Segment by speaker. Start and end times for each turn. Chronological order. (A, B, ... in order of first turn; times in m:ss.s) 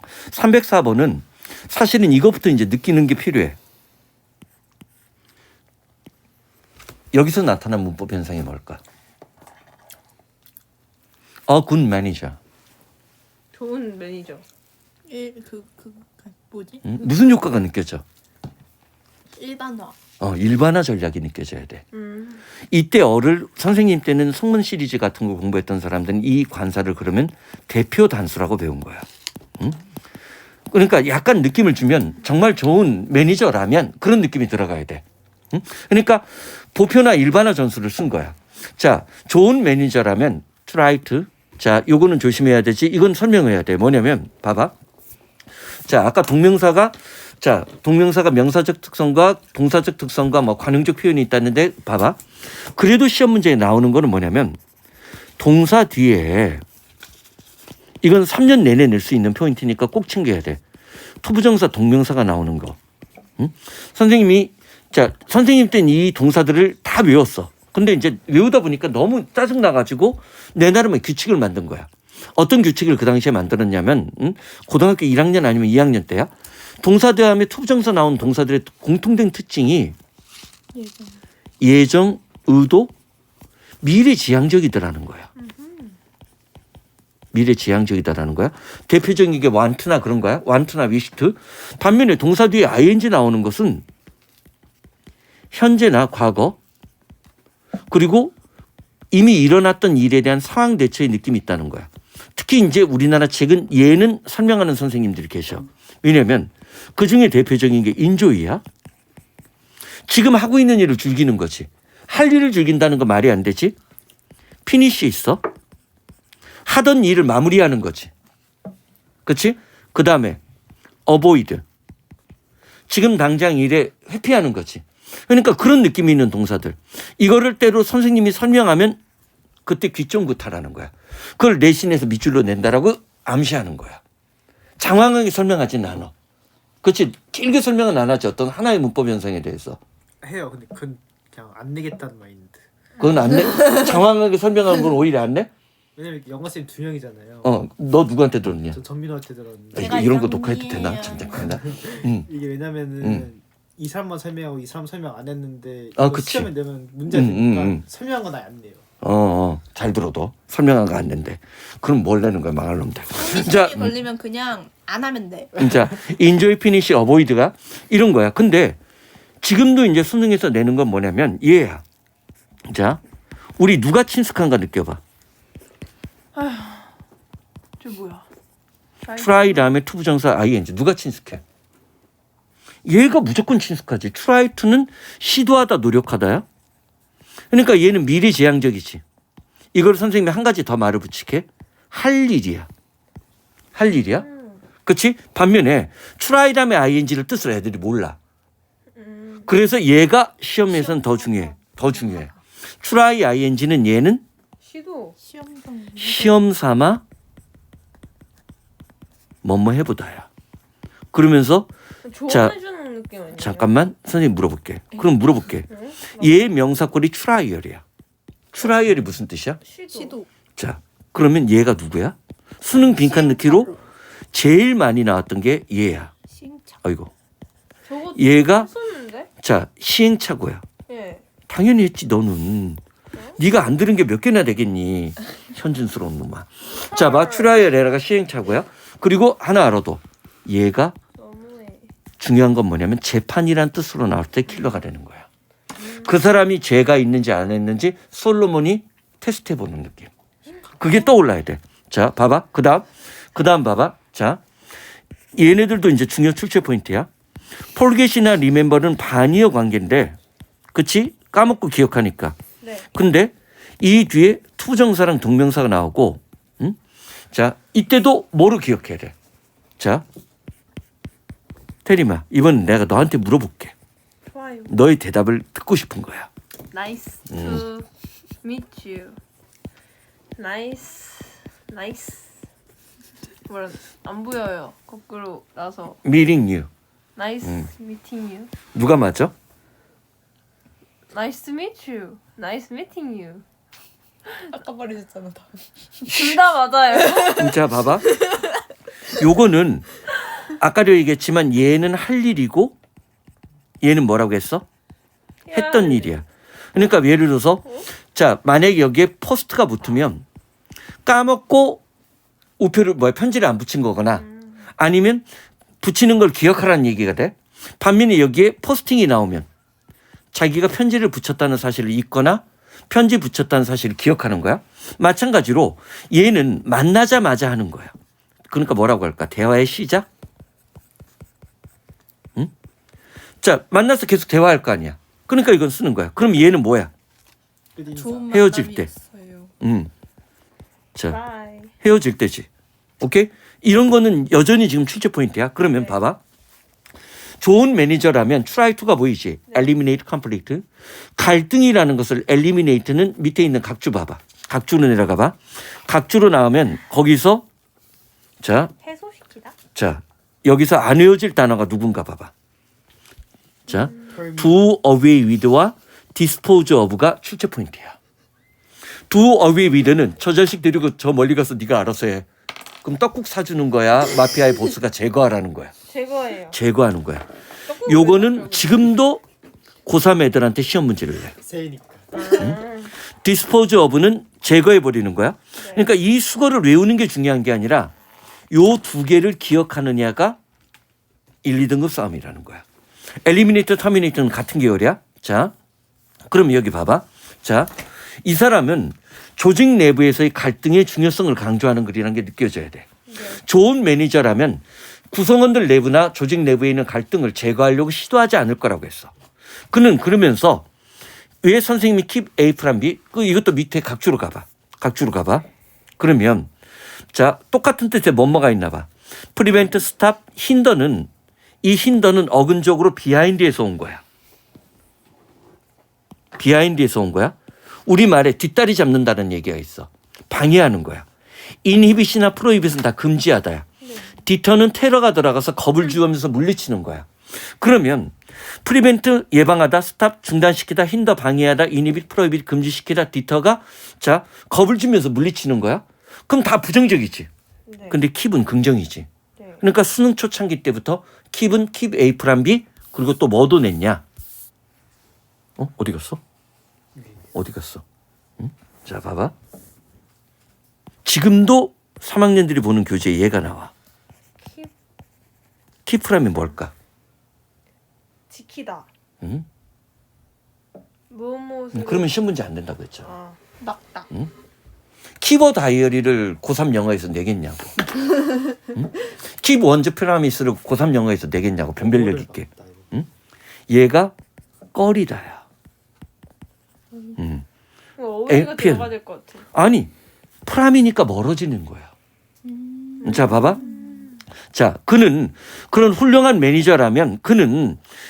0:00.3-0:03.6 A
0:07.1-0:08.8 A
0:11.5-0:12.4 A
0:13.5-0:14.4 B
0:15.1-0:16.9 C
0:16.8-0:18.0 A
0:19.3-0:20.0 C
0:20.2-0:21.8 A
0:21.9-0:22.4 B
0:22.7-0:29.1 A
0:30.7-0:44.7 A
0:45.9-0:54.6 A
0:55.4-0:56.6 A
0:58.0-1:00.6 A
1:01.2-1:02.8 A
1:03.4-1:20.0 A
1:20.7-1:21.2 C
1:21.6-1:22.9 A
1:23.8-1:25.3 A
1:25.4-1:26.0 B
1:27.3-1:33.8 A
1:35.5-1:36.6 A
1:37.9-1:38.3 A
1:39.1-1:48.6 A
1:50.1-1:53.8 A
1:54.6-1:55.4 A
1:56.6-1:58.1 A
1:59.3-2:00.4 A
2:01.1-2:01.6 A
2:02.9-2:09.0 A
2:09.7-2:14.0 A
2:14.8-2:16.1 A
2:16.8-2:19.8 A
2:20.2-2:22.7 D
2:23.0-2:25.5 A
2:23.0-2:23.7 B
2:26.0-2:27.5 D
2:27.4-2:28.8 A
2:28.7-2:30.2 D
2:29.8-2:32.3 A
2:29.8-2:31.6 C
2:31.4-2:38.9 D
2:33.0-2:33.3 A
2:36.0-2:36.5 A
2:37.1-2:37.8 A
2:39.0-2:44.0 A
2:43.1-2:45.7 C
2:45.6-2:48.8 A
2:49.4-2:51.8 A
2:52.7-2:53.0 A
2:53.6-2:55.0 A
2:56.4-2:56.9 B
2:57.8-2:58.2 B
2:59.0-2:59.8 B
2:59.2-3:01.4 A
3:02.8-3:06.4 A
3:07.5-3:09.0 A
3:09.7-3:12.7 A
3:13.8-3:14.3 A
3:14.1-3:14.6 B
3:14.8-3:18.2 A
3:19.0-3:19.5 B
3:19.5-3:24.2 A
3:20.7-3:22.3 C
3:24.6-3:25.2 B
3:25.2-3:26.4 C
3:26.0-3:27.0 A
3:29.4-3:30.3 A
3:31.1-3:31.7 A
3:32.0-3:33.8 B
3:32.3-3:32.6 A
3:33.4-3:37.8 A
3:35.7-3:36.4 B
3:38.5-3:39.6 A
3:39.7-3:40.2 B
3:39.9-3:40.3 C
3:40.6-3:43.8 A
3:42.8-3:43.8 C
3:44.3-3:46.1 A
3:46.3-3:46.8 C
3:46.8-3:47.1 A
3:47.9-3:49.3 B
3:48.2-3:48.7 A
3:49.4-3:50.6 A
3:50.9-3:51.2 B
3:51.5-3:52.8 A
3:53.4-4:01.0 A
3:56.9-3:57.6 B
4:01.2-4:01.9 B
4:02.2-4:05.3 A
4:05.8-4:06.1 B
4:05.9-4:10.1 A
4:10.8-4:14.4 A
4:15.3-4:17.1 A
4:17.7-4:20.2 A
4:20.7-4:22.4 A
4:22.6-4:22.9 B
4:22.9-4:26.8 A
4:27.3-4:29.1 A
4:29.8-4:30.0 A
4:31.8-4:33.7 A
4:34.3-4:34.7 B
4:34.7-4:36.3 A
4:36.7-4:37.9 B
4:37.3-4:37.6 A
4:38.4-4:39.2 B
4:40.4-4:42.4 B
4:43.5-4:46.0 B
4:46.0-4:46.7 A
4:47.2-4:48.5 B
4:47.4-4:47.7 A
4:48.7-4:49.3 A
4:51.1-4:53.4 B
4:54.5-4:56.1 C
4:56.1-4:56.4 A
4:56.1-4:57.7 B
4:57.0-4:57.4 C
4:57.3-4:58.1 A
4:59.1-5:00.0 A
5:00.5-5:02.8 A
5:03.8-5:04.7 A
5:05.5-5:06.2 B
5:05.5-5:10.2 A
5:11.0-5:11.8 A
5:12.6-5:14.2 A
5:14.2-5:14.7 B
5:14.8-5:15.2 A
5:15.8-5:19.5 A
5:20.3-5:27.9 A
5:28.5-5:30.1 A
5:33.4-5:36.9 A
5:37.8-5:38.3 D
5:37.9-5:39.5 C
5:38.3-5:38.9 A
5:39.6-5:39.9 A
5:41.1-5:41.7 B
5:41.8-5:42.5 A
5:43.0-5:46.2 A
5:45.7-5:46.0 B
5:47.4-5:50.7 A
5:49.5-5:49.8 B
5:51.2-5:57.4 A
5:58.4-5:58.7 A
5:58.8-5:59.6 B
5:59.8-6:02.3 A
6:03.7-6:08.0 A
6:03.7-6:04.2 B
6:04.1-6:04.6 D
6:09.1-6:12.3 A
6:12.8-6:15.7 A
6:15.9-6:16.6 B
6:16.5-6:17.3 A
6:17.7-6:18.9 B
6:17.8-6:19.2 A
6:19.9-6:21.4 A
6:21.4-6:22.4 D
6:22.1-6:22.9 B
6:22.3-6:22.6 A
6:23.2-6:27.9 A
6:25.6-6:25.9 B
6:28.5-6:30.4 A
6:31.4-6:32.6 A
6:33.2-6:35.5 A
6:36.3-6:49.1 A
6:43.1-6:43.4 B
6:49.7-6:50.7 A
6:51.4-6:55.5 A
6:56.0-6:56.5 A
6:57.1-7:01.1 A
7:01.6-7:04.0 A
7:06.4-7:11.1 A
7:11.6-7:13.7 A
7:13.8-7:14.1 B
7:14.2-7:27.3 A
7:27.7-7:28.0 B
7:27.9-7:29.1 A
7:29.4-7:29.6 B
7:29.6-7:34.0 A
7:35.6-7:36.2 A
7:37.0-7:37.2 D
7:37.3-7:37.8 A
7:38.4-7:39.3 A
7:41.0-7:43.7 A
7:44.4-7:44.7 B
7:45.9-7:46.7 A
7:48.3-7:48.9 B
7:49.2-7:49.5 A
7:51.1-7:52.1 B
7:51.7-7:53.1 A
7:53.0-7:53.4 B
7:53.6-7:54.1 C
7:55.2-7:57.8 A
7:58.7-8:03.1 A
8:01.8-8:02.9 D
8:03.7-8:04.1 A
8:04.7-8:05.4 A
8:07.2-8:07.4 A
8:08.0-8:09.5 B
8:08.3-8:08.9 A
8:09.5-8:09.9 A
8:10.5-8:11.9 A
8:12.4-8:14.1 C
8:13.0-8:14.2 B
8:13.0-8:13.6 A
8:14.5-8:17.8 A